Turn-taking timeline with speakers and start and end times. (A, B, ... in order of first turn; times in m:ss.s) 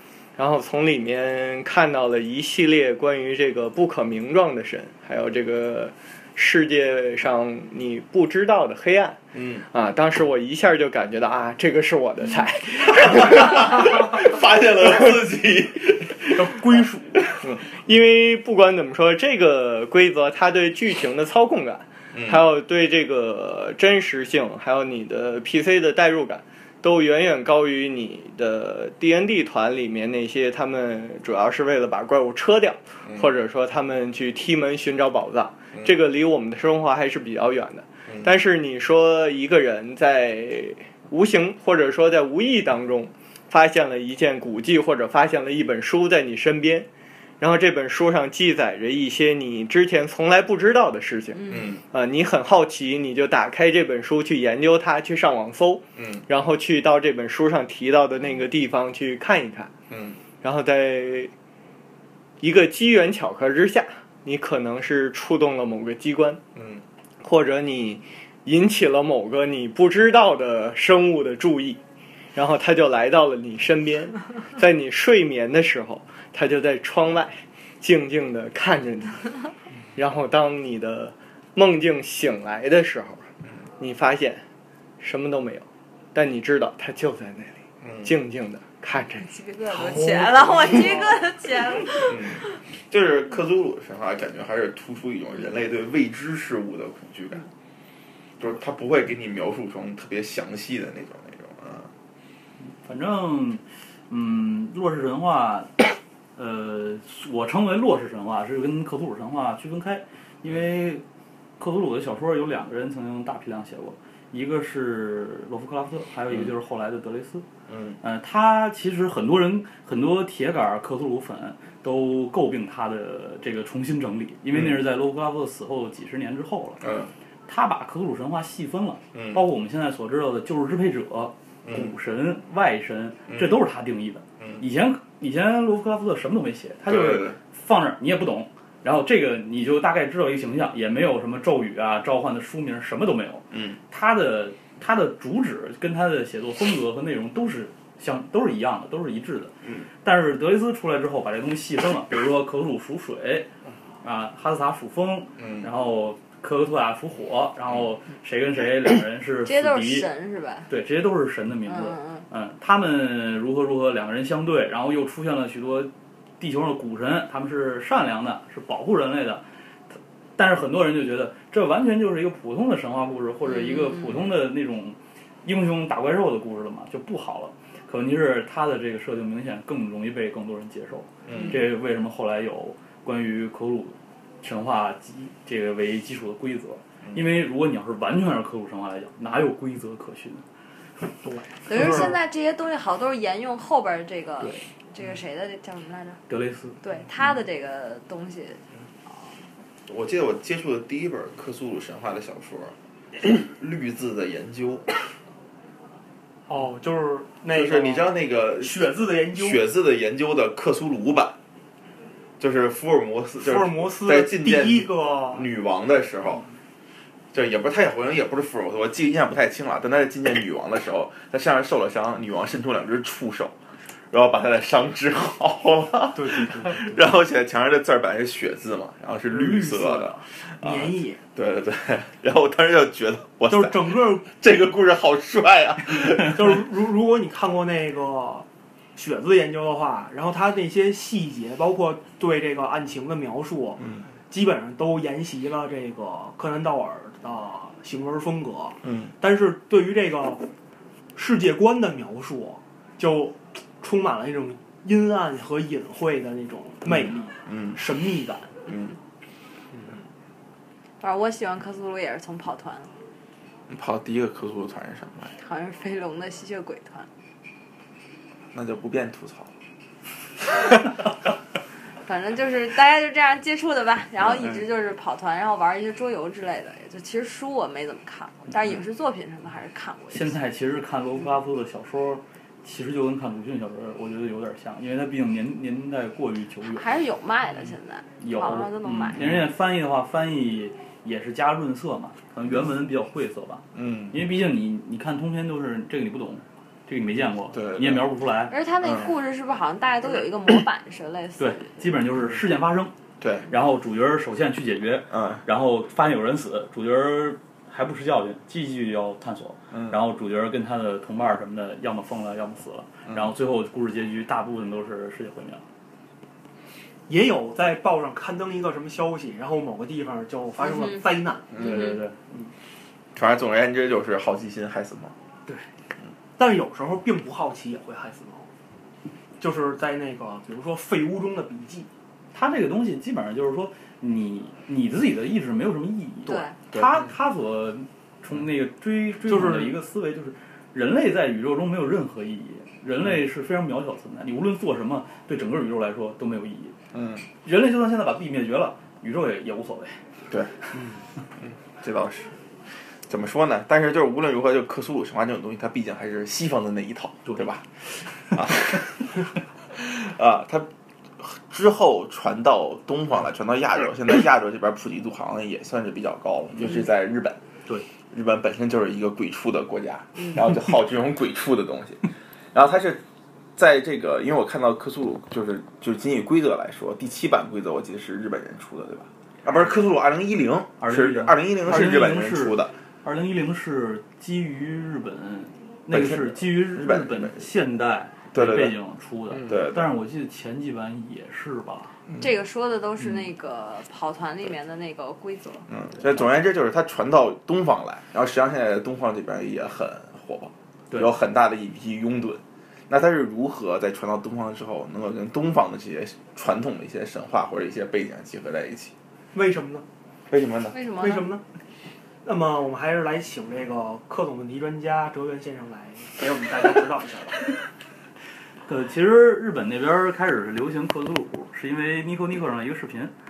0:00.4-0:13.6 A
0:09.3-0:09.6 B
0:13.0-0:16.7 B
0:16.3-0:17.2 C
0:17.4-0:46.9 A
0:22.1-0:22.4 B
0:47.4-0:59.7 A
0:51.3-0:51.7 D
0:51.5-0:51.8 B
0:56.0-0:56.2 B
0:59.9-1:00.2 B
1:00.4-1:01.3 A
1:02.4-1:06.4 A
1:06.5-1:06.8 B
1:07.2-1:11.8 A
1:12.3-1:19.3 A
1:19.9-1:24.4 A
1:25.0-1:29.3 A
1:27.8-1:28.1 B
1:29.2-1:32.4 D
1:29.7-1:31.2 C
1:32.0-1:37.4 B
1:38.4-1:41.9 B
1:42.7-1:45.8 E
1:46.4-1:51.0 E
1:51.6-1:57.4 E
1:57.7-1:58.0 B
1:58.0-2:06.8 E
2:06.8-2:07.1 B
2:07.5-2:33.5 E
2:09.1-2:09.4 B
2:11.6-2:11.9 B
2:13.3-2:13.6 B
2:16.8-2:17.4 B
2:23.5-2:23.8 B
2:34.0-2:40.1 E
2:35.4-2:35.7 B
2:39.4-2:40.7 D
2:40.7-2:49.4 E
2:41.6-2:42.2 D
2:50.4-3:10.4 E
2:53.4-2:54.1 D
3:01.2-3:01.6 B
3:11.2-3:12.1 C
3:11.6-3:16.2 D
3:16.3-3:16.8 E
3:16.8-3:18.6 D
3:19.9-3:24.8 B
3:26.5-3:29.6 C
3:27.5-3:31.4 B
3:32.4-3:36.4 B
3:33.4-3:35.5 C
3:37.3-3:43.6 B
3:44.1-3:56.4 B
3:46.1-3:47.0 C
3:49.3-3:51.2 C
3:53.5-3:54.3 C
3:56.1-4:10.4 C
4:08.8-4:09.1 B
4:11.1-4:18.6 C
4:16.8-4:17.8 B
4:18.7-4:18.9 B
4:21.0-4:22.9 D
4:23.7-4:25.3 B
4:25.4-4:27.1 D
4:28.5-4:29.5 B
4:32.0-4:40.4 D
4:34.2-4:34.5 B
4:40.1-4:46.9 E
4:46.6-4:49.2 D
4:48.2-4:58.5 E
4:49.2-4:49.5 B
4:53.7-4:54.2 B
4:57.5-4:58.0 B
4:58.5-5:01.8 D
4:58.8-4:59.1 B
5:01.4-5:02.9 E
5:03.2-5:03.5 B
5:03.5-5:15.6 E
5:05.1-5:05.4 B
5:09.7-5:10.0 B
5:17.1-5:21.6 C
5:20.6-5:21.0 D
5:21.5-5:21.9 B
5:21.6-5:22.2 E
5:21.6-5:21.9 D
5:23.2-5:25.1 B
5:26.4-5:28.5 C
5:29.4-5:31.9 C
5:32.3-5:46.7 E
5:36.2-5:36.6 D
5:36.7-5:37.0 B
5:39.2-5:39.8 C
5:46.9-5:47.2 B
5:47.4-5:50.0 E
5:51.4-5:52.3 B
5:53.1-5:57.6 B
5:58.3-5:59.1 B
5:59.7-6:00.7 B
6:01.2-6:07.4 B
6:08.1-6:13.0 B
6:13.6-6:22.7 B
6:20.8-6:32.0 E
6:25.9-6:27.5 B
6:28.3-6:28.8 B
6:29.4-6:29.9 B
6:32.2-6:35.6 D
6:35.7-6:48.9 B
6:49.3-6:49.8 C
6:50.3-6:50.8 B
6:50.7-6:51.3 D
6:50.9-6:51.4 C
6:52.2-6:57.5 C
6:58.7-7:03.1 E